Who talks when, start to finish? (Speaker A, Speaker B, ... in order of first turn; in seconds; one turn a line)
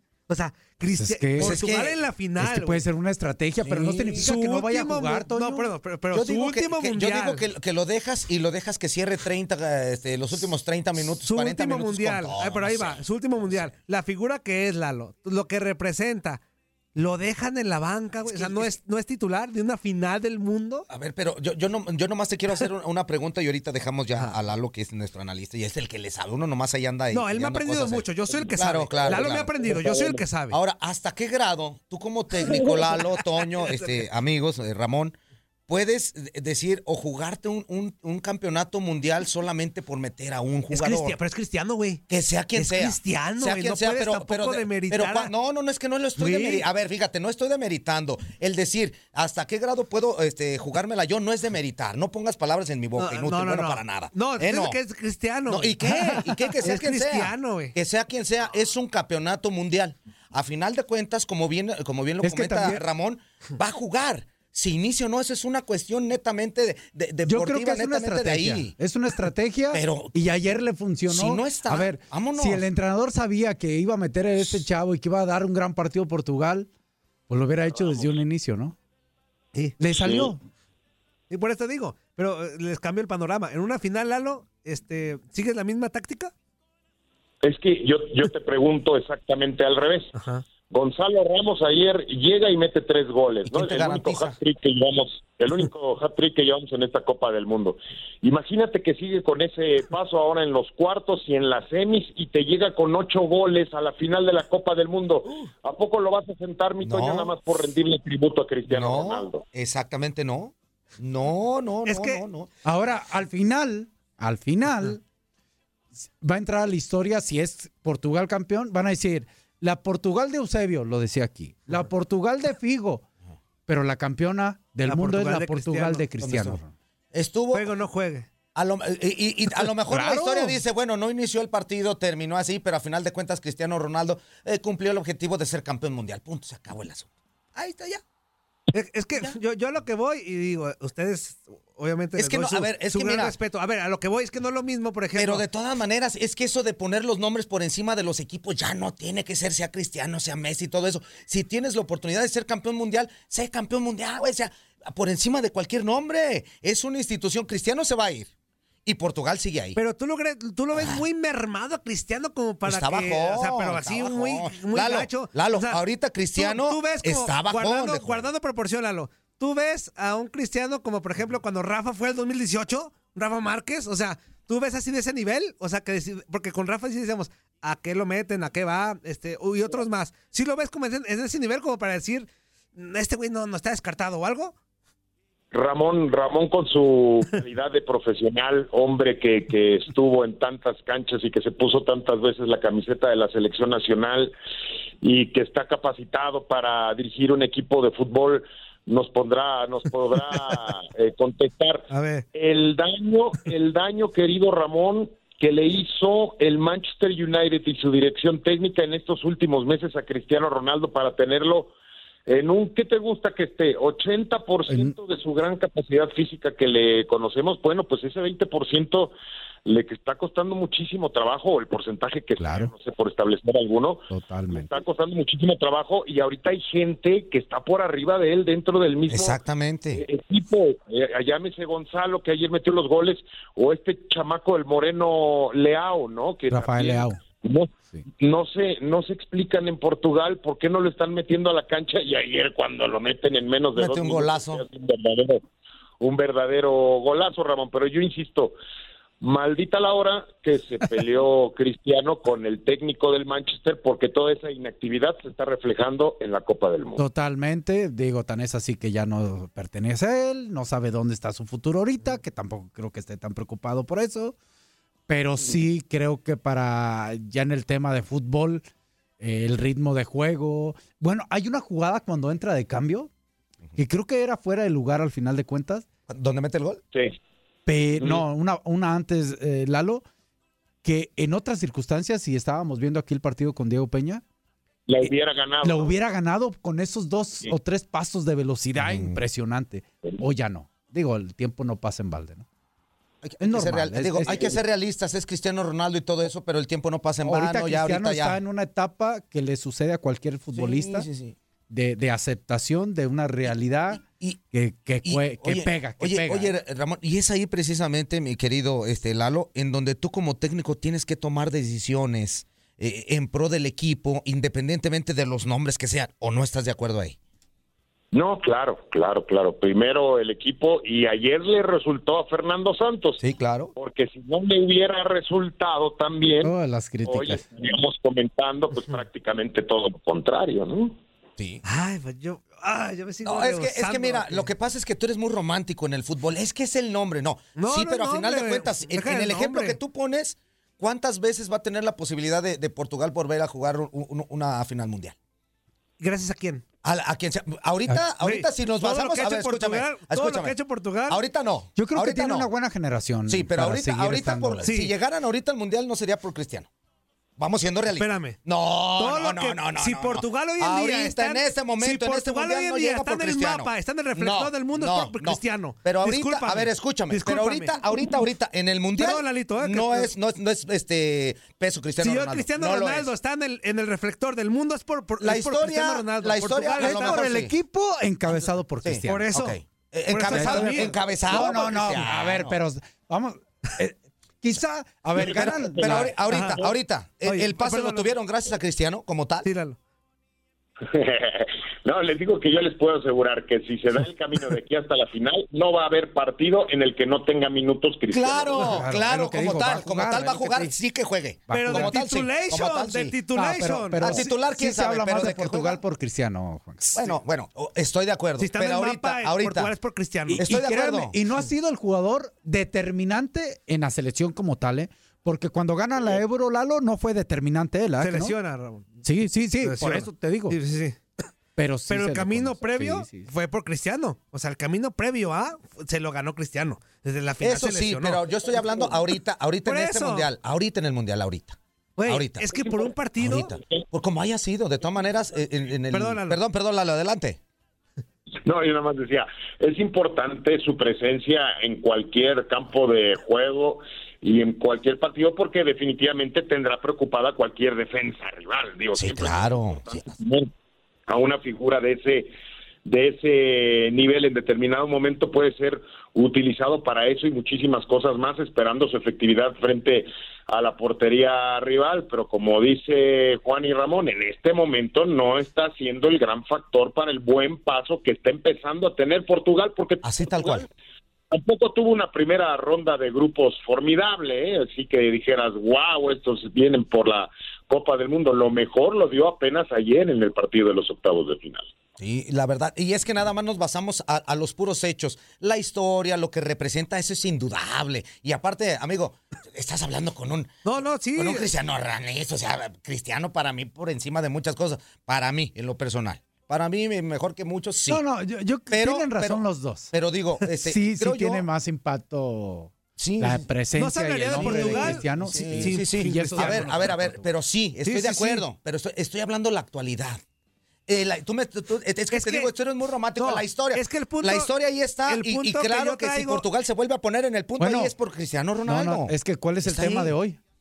Speaker A: 0.3-2.8
Speaker B: 1.0-1.6
Speaker C: 1.4-2.0
Speaker B: 2.4-5.7
Speaker A: 3.6-7.4
Speaker C: 6.1-13.7
Speaker A: 11.2-16.4
Speaker A: 16.9-20.9
Speaker C: 18.3-18.7
Speaker C: 20.9-35.1
Speaker A: 27.1-30.6
Speaker D: 29.1-30.2
Speaker A: 32.5-34.0
Speaker C: 35.7-41.2
Speaker A: 40.7-42.0
Speaker C: 42.1-54.8
Speaker A: 42.5-45.3
Speaker A: 46.2-46.7
Speaker A: 53.0-57.7
Speaker C: 55.5-68.7
Speaker B: 62.2-62.8
Speaker B: 67.3-76.7
Speaker C: 69.7-70.1
Speaker C: 71.1-72.6
Speaker B: 77.3-78.8
Speaker A: 79.5-80.1
Speaker B: 79.8-80.4
Speaker A: 81.3-86.3
Speaker D: 87.4-90.1
Speaker A: 90.1-90.4
Speaker D: 90.7-109.4
Speaker C: 93.5-94.4
Speaker C: 106.8-107.4
Speaker C: 108.7-112.5
Speaker A: 111.9-112.2
Speaker B: 112.6-115.0
Speaker B: 116.0-123.0
Speaker B: 123.7-126.7
Speaker A: 124.9-126.0
Speaker C: 126.2-126.6
Speaker C: 127.1-127.7
Speaker A: 127.5-128.3
Speaker C: 128.6-138.0
Speaker B: 129.9-130.6
Speaker A: 138.7-145.4
Speaker C: 142.2-143.3
Speaker C: 145.2-158.3
Speaker C: 158.9-159.8
Speaker A: 159.8-165.8
Speaker C: 160.7-161.0
Speaker C: 162.7-168.3
Speaker A: 166.4-184.5
Speaker D: 185.5-194.3
Speaker D: 195.0-211.7
Speaker A: 201.9-202.2
Speaker D: 212.3-219.1
Speaker B: 214.7-214.9
Speaker D: 219.6-229.4
Speaker B: 222.4-222.7
Speaker B: 224.1-224.7
Speaker C: 229.1-230.0
Speaker D: 229.9-245.4
Speaker B: 236.5-237.2
Speaker C: 243.8-244.6
Speaker D: 246.0-248.6
Speaker D: 249.2-257.0
Speaker B: 257.0-264.4
Speaker B: 265.1-268.6
Speaker B: 269.2-273.1
Speaker B: 273.8-275.8
Speaker C: 276.1-276.8
Speaker B: 277.7-280.0
Speaker B: 280.8-284.2
Speaker D: 284.9-285.9
Speaker B: 285.6-292.4
Speaker C: 288.8-289.2
Speaker C: 293.2-298.4
Speaker B: 293.4-294.6
Speaker B: 297.3-301.1
Speaker C: 300.5-301.4
Speaker B: 301.7-306.5
Speaker C: 303.9-304.4
Speaker C: 305.0-317.1
Speaker D: 318.1-323.2
Speaker C: 323.2-323.7
Speaker D: 323.8-326.5
Speaker B: 326.4-327.4
Speaker D: 327.1-330.9
Speaker C: 331.4-331.6
Speaker A: 331.6-334.5
Speaker C: 333.2-345.1
Speaker A: 337.6-339.8
Speaker A: 346.0-346.6
Speaker C: 346.8-350.6
Speaker A: 348.2-351.2
Speaker C: 351.1-352.5
Speaker B: 351.8-354.6
Speaker C: 353.3-356.7
Speaker A: 354.6-354.9
Speaker C: 357.4-373.1
Speaker A: 358.0-358.4
Speaker A: 358.9-368.2
Speaker A: 368.9-370.1
Speaker A: 372.0-377.3
Speaker C: 375.2-377.6
Speaker B: 376.8-379.3
Speaker C: 378.3-382.6
Speaker A: 379.1-379.6
Speaker A: 380.1-381.6
Speaker B: 380.3-386.1
Speaker C: 385.1-389.5
Speaker D: 385.6-386.0
Speaker A: 386.3-386.7
Speaker A: 387.2-388.1
Speaker A: 389.4-389.8
Speaker D: 390.8-398.7
Speaker C: 398.1-403.2
Speaker B: 398.6-400.7
Speaker B: 401.5-401.9
Speaker A: 401.5-404.3
Speaker B: 403.3-407.1
Speaker C: 404.0-405.8
Speaker C: 406.9-409.7
Speaker A: 408.4-410.7
Speaker B: 410.3-418.3
Speaker C: 410.3-411.1
Speaker A: 418.0-419.0
Speaker B: 419.0-420.6
Speaker A: 419.6-421.3
Speaker B: 421.6-423.3
Speaker A: 421.9-428.5
Speaker C: 427.4-432.6
Speaker A: 429.6-430.3
Speaker A: 432.0-433.5
Speaker C: 433.2-437.4
Speaker A: 435.9-436.4
Speaker D: 438.4-450.5
Speaker C: 448.9-450.1
Speaker D: 451.1-452.3
Speaker D: 452.8-470.7
Speaker C: 470.0-470.7
Speaker D: 471.3-481.7
Speaker C: 482.0-490.5
Speaker A: 490.6-491.5
Speaker C: 491.1-498.0
Speaker B: 497.9-499.9
Speaker C: 498.7-501.4
Speaker B: 500.5-507.3
Speaker C: 503.0-503.5
Speaker A: 503.7-506.9
Speaker C: 504.3-510.2
Speaker A: 507.9-508.3
Speaker B: 507.9-508.3
Speaker C: 510.9-520.1
Speaker A: 512.1-512.5
Speaker A: 513.2-514.5
Speaker A: 515.0-516.4
Speaker B: 517.6-517.9
Speaker B: 518.6-520.4